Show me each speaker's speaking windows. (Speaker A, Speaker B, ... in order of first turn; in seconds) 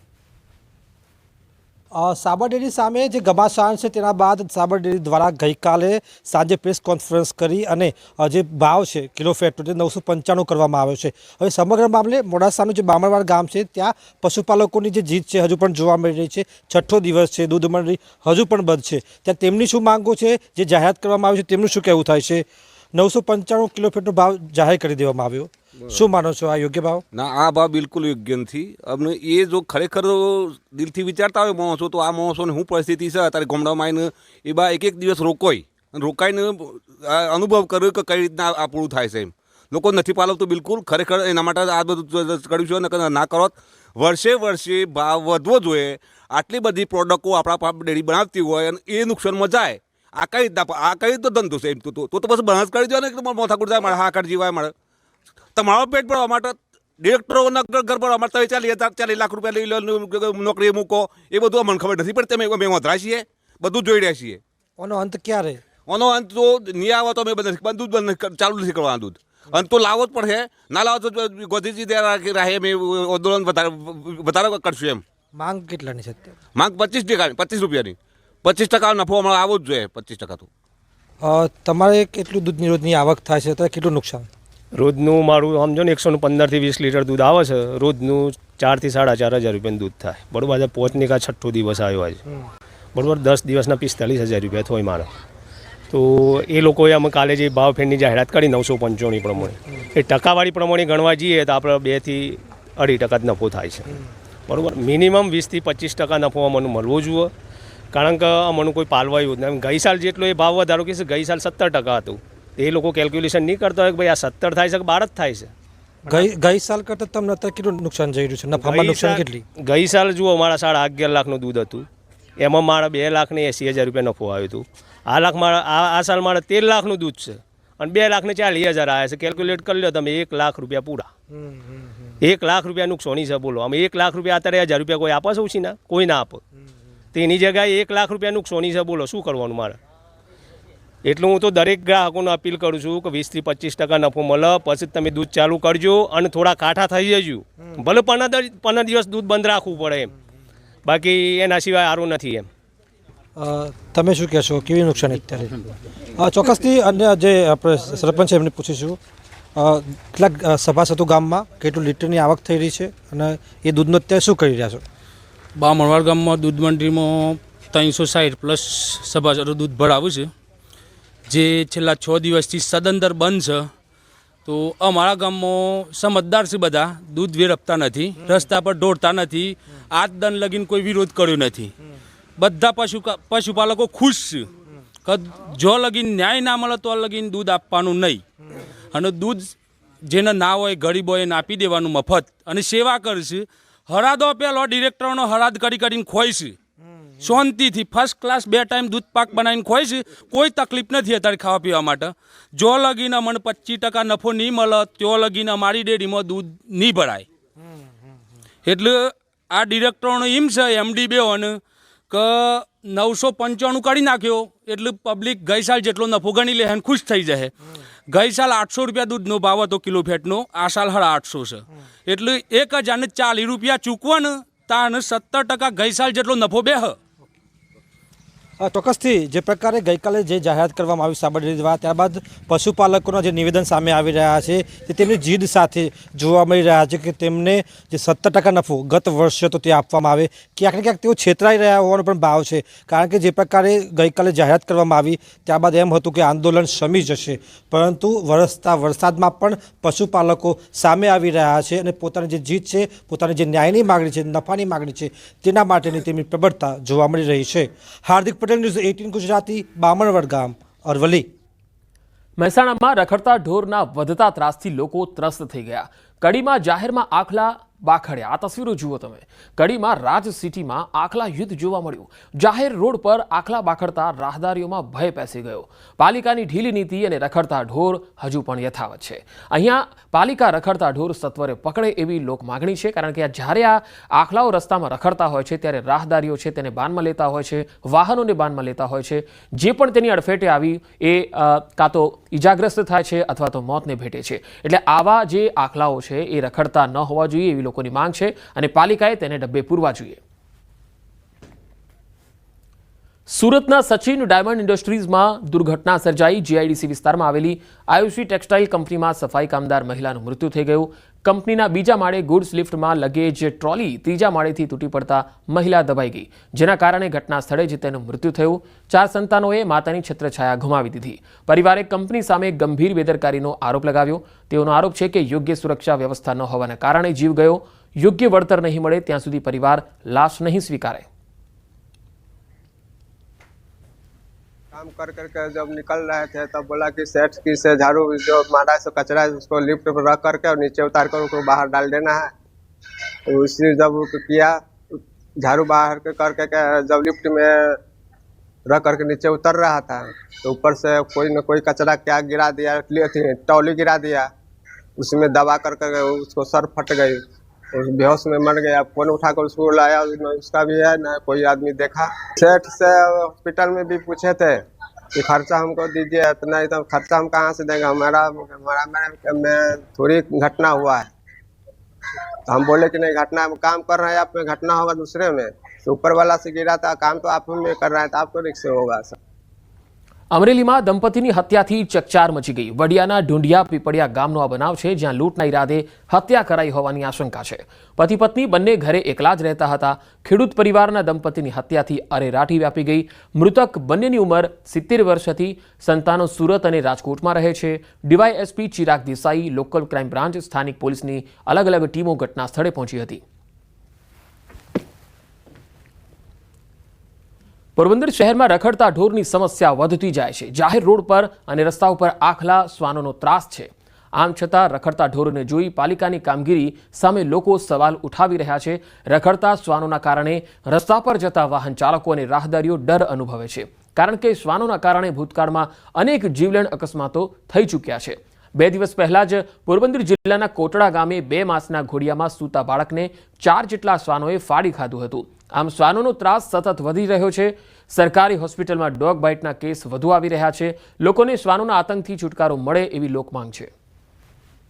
Speaker A: 1.9-27.0, 64.8-65.6, 75.3-76.3, 81.2-84.3, 116.1-119.4, 153.3-155.6, 156.1-159.0, 159.6-164.8, 228.6-261.2
Speaker B: 27.3-30.1, 30.8-35.4, 36.1-36.4, 37.3-39.2, 39.8-43.4, 44.0-45.7, 46.4-49.6, 50.3-54.7, 55.6-56.5, 57.0-60.8, 61.4-64.4, 66.3-69.0, 69.5-69.9, 70.5-73.7, 74.4-75.0, 76.7-77.9, 78.5-80.4
Speaker C: 84.7-92.3, 92.9-95.1, 95.9-107.3, 107.9-115.5, 118.6-121.8, 122.4-131.1, 132.2-136.4, 137.1-139.8, 141.0-150.1, 150.8-152.5
Speaker D: 165.5-170.3, 171.3-173.7, 174.4-181.7, 182.4-184.5, 185.0-188.2, 188.9-196.6, 197.2-207.3, 208.6-217.5, 218.1-227.0
Speaker E: 262.4-300.2, 303.3-331.0, 380.3-403.2, 407.8-443.7
Speaker F: 334.7-342.3, 343.3-347.8, 348.7-354.3, 355.0-357.2, 357.8-364.6, 365.1-371.1, 372.5-379.2